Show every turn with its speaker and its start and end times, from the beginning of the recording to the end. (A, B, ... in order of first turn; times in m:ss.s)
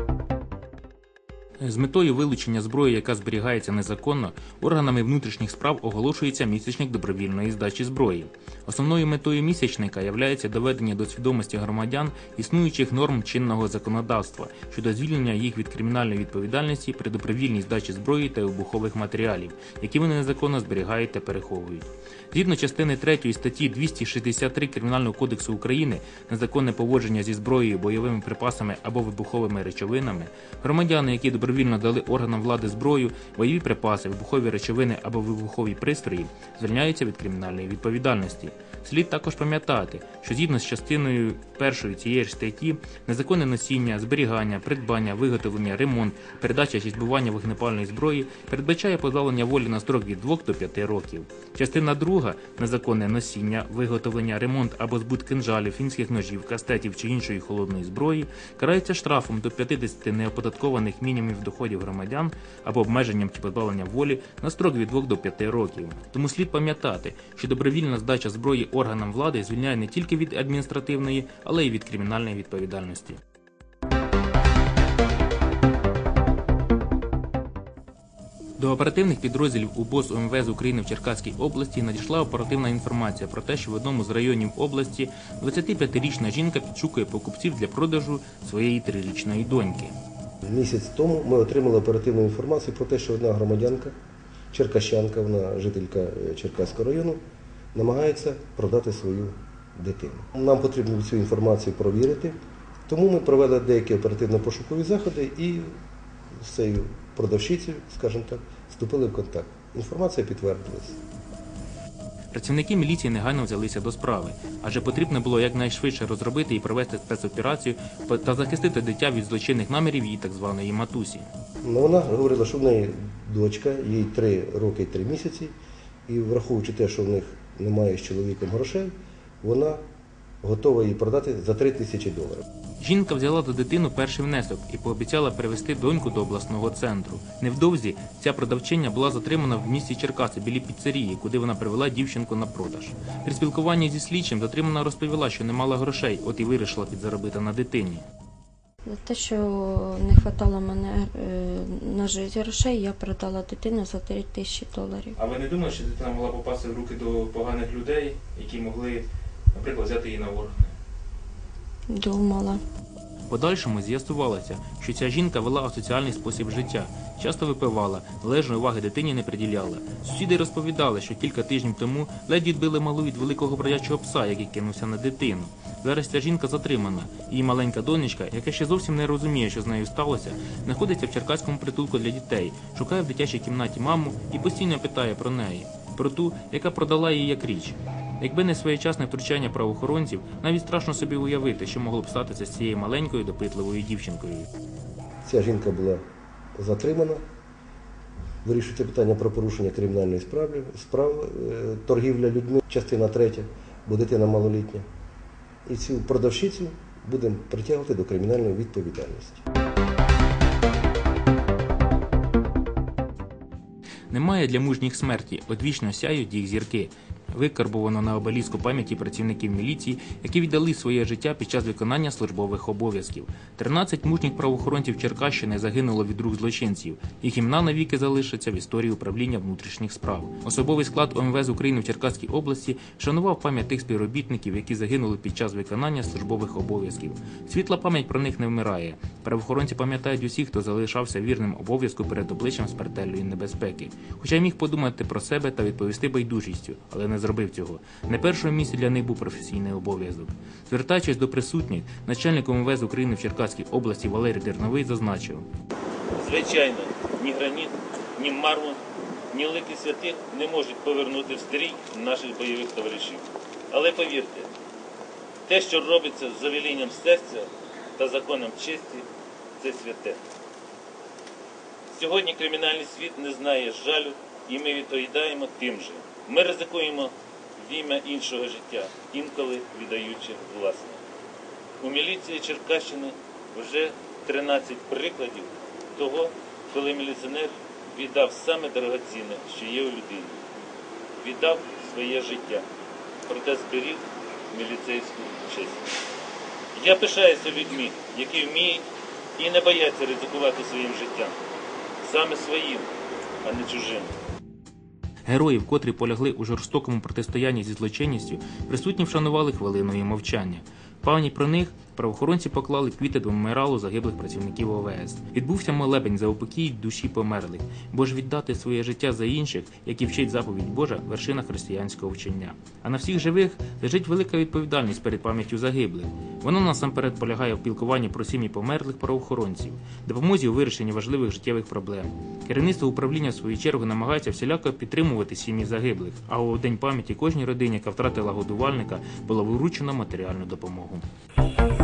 0:01.6-1:13.2 A
1:18.6-1:29.9 A
1:30.4-1:33.9 B
1:34.5-1:37.2 B
1:37.7-1:45.7 B
1:46.4-1:51.0 B
1:52.3-2:01.3 A
2:01.6-2:05.5 B
2:06.1-2:09.8 B
2:10.4-2:12.4 B
2:12.8-2:28.0 A
2:28.8-2:35.1 C
2:35.1-2:40.8 A
2:41.9-2:42.6 C
2:43.3-3:14.5 A
3:15.2-3:16.0 B
3:16.6-3:17.2 B
3:18.4-3:24.8 B
3:25.6-3:29.4 B
3:34.1-4:15.5 A
4:16.1-4:24.5 D
4:25.5-4:30.2 D
4:31.9-4:41.0 D
4:41.8-4:50.4 D
4:51.2-4:52.6 D
4:53.3-4:55.8 D
4:56.7-4:58.8 D
4:59.4-5:01.4 D
5:02.0-5:02.9 D
5:03.4-5:04.1 D
5:05.2-5:41.0 A